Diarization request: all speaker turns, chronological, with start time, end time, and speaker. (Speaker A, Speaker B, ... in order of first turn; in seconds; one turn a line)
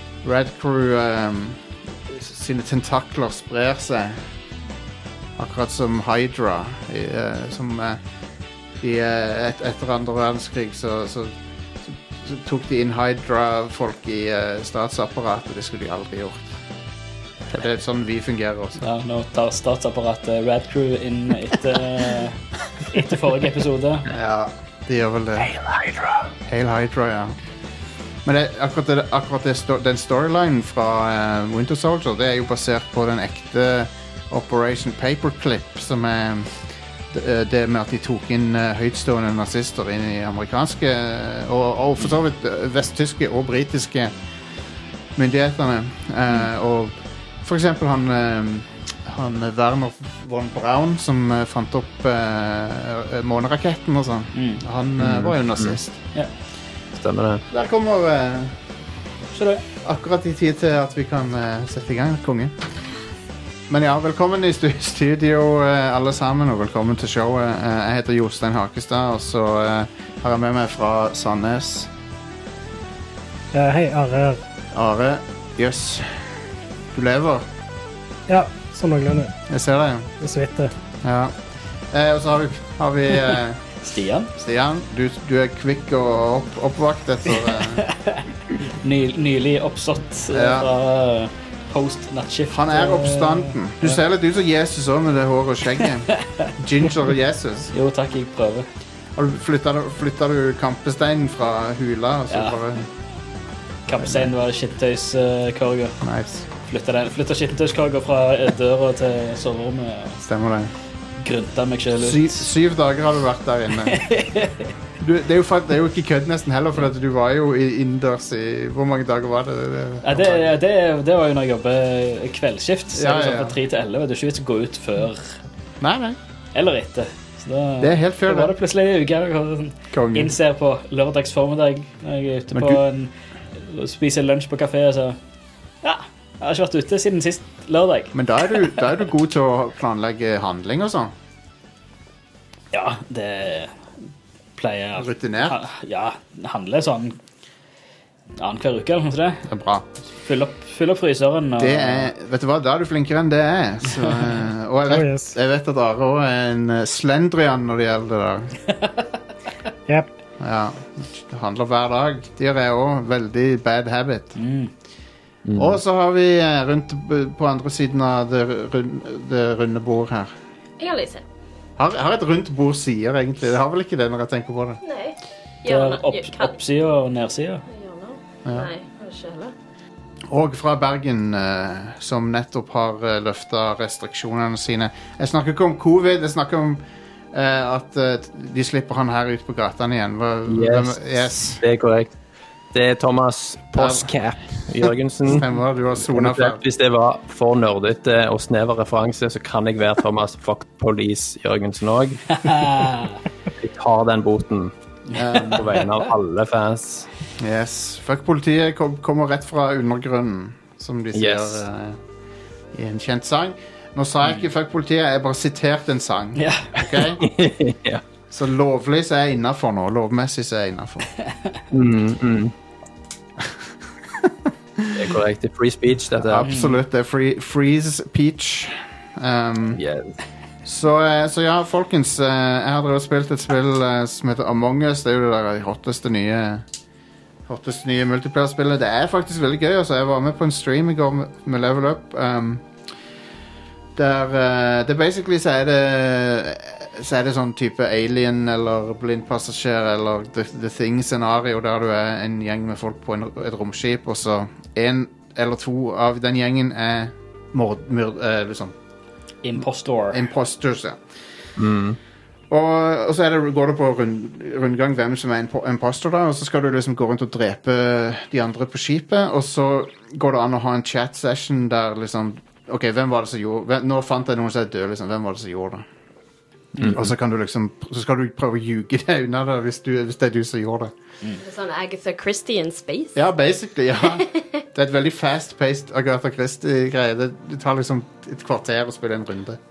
Speaker A: 0.2-4.2
Speaker A: 5.4-8.0
Speaker A: 8.8-16.6
Speaker A: 17.5-18.9
Speaker B: 18.8-24.1
Speaker A: 24.1-25.5
Speaker C: 25.5-26.1
Speaker A: 26.4-27.4
Speaker A: 28.2-36.5
Speaker A: 37.1-44.1
Speaker A: 45.1-56.0
Speaker B: 54.3-54.6
Speaker C: 55.0-55.8
Speaker C: 56.9-57.4
Speaker A: 57.5-58.6
Speaker B: 59.3-59.6
Speaker A: 59.8-62.5
Speaker A: 63.7-71.9
Speaker D: 73.5-74.4
Speaker A: 74.7-76.2
Speaker A: 76.9-77.4
Speaker D: 78.3-79.3
Speaker A: 79.5-80.1
Speaker D: 80.2-80.7
Speaker A: 81.0-81.3
Speaker A: 81.9-83.7
Speaker B: 83.8-84.3
Speaker A: 84.4-87.8
Speaker B: 87.8-94.0
Speaker A: 90.3-90.7
Speaker A: 92.5-97.7
Speaker B: 96.1-96.5
Speaker B: 97.7-98.7
Speaker A: 99.2-102.9
Speaker B: 102.3-102.5
Speaker B: 103.9-106.0
Speaker A: 104.0-104.3
Speaker A: 106.0-106.5
Speaker B: 106.7-110.2
Speaker A: 110.2-110.7
Speaker B: 111.2-112.5
Speaker A: 112.0-114.0
Speaker B: 113.9-114.7
Speaker A: 115.0-120.5
Speaker B: 120.0-125.4
Speaker A: 122.9-123.6
Speaker A: 125.8-126.2
Speaker B: 126.5-135.2
Speaker A: 127.8-128.5
Speaker A: 129.9-130.3
Speaker A: 132.5-132.8
Speaker B: 135.8-138.7
Speaker A: 138.1-141.1
Speaker B: 142.7-143.7
Speaker B: 144.6-147.2
Speaker A: 145.0-145.6
Speaker B: 148.4-149.4
Speaker A: 149.5-149.9
Speaker B: 150.2-152.1
Speaker A: 151.6-158.5
Speaker D: 154.9-155.3
Speaker A: 160.4-164.4
Speaker B: 164.4-164.7
Speaker C: 165.4-165.8
Speaker A: 165.6-170.3
Speaker E: 170.8-171.2
Speaker A: 171.8-174.8
Speaker E: 174.8-176.5
Speaker B: 175.7-177.6
Speaker E: 177.7-179.5
Speaker A: 178.4-178.7
Speaker A: 180.3-191.6
Speaker C: 190.5-192.1
Speaker C: 192.7-195.5
Speaker A: 193.7-194.1
Speaker A: 195.2-196.6
Speaker C: 196.0-202.3
Speaker B: 202.4-203.1
Speaker C: 203.6-204.7
Speaker A: 205.1-205.6
Speaker B: 205.2-205.7
Speaker C: 205.4-207.1
Speaker A: 207.4-212.0
Speaker C: 211.1-211.6
Speaker A: 212.7-217.2
Speaker B: 216.4-216.8
Speaker C: 217.2-218.0
Speaker A: 218.3-221.1
Speaker C: 221.7-222.5
Speaker A: 224.2-225.1
Speaker C: 224.9-226.5
Speaker A: 226.1-229.8
Speaker B: 226.4-226.8
Speaker C: 229.7-230.1
Speaker A: 230.6-236.6
Speaker A: 237.5-242.7
Speaker A: 243.9-258.7
Speaker B: 259.4-260.2
Speaker A: 260.1-261.0
Speaker C: 261.6-262.0
Speaker A: 262.5-275.8
Speaker B: 276.8-277.0
Speaker A: 276.9-280.9
Speaker E: 281.4-283.2
Speaker A: 283.1-289.6
Speaker E: 284.1-284.3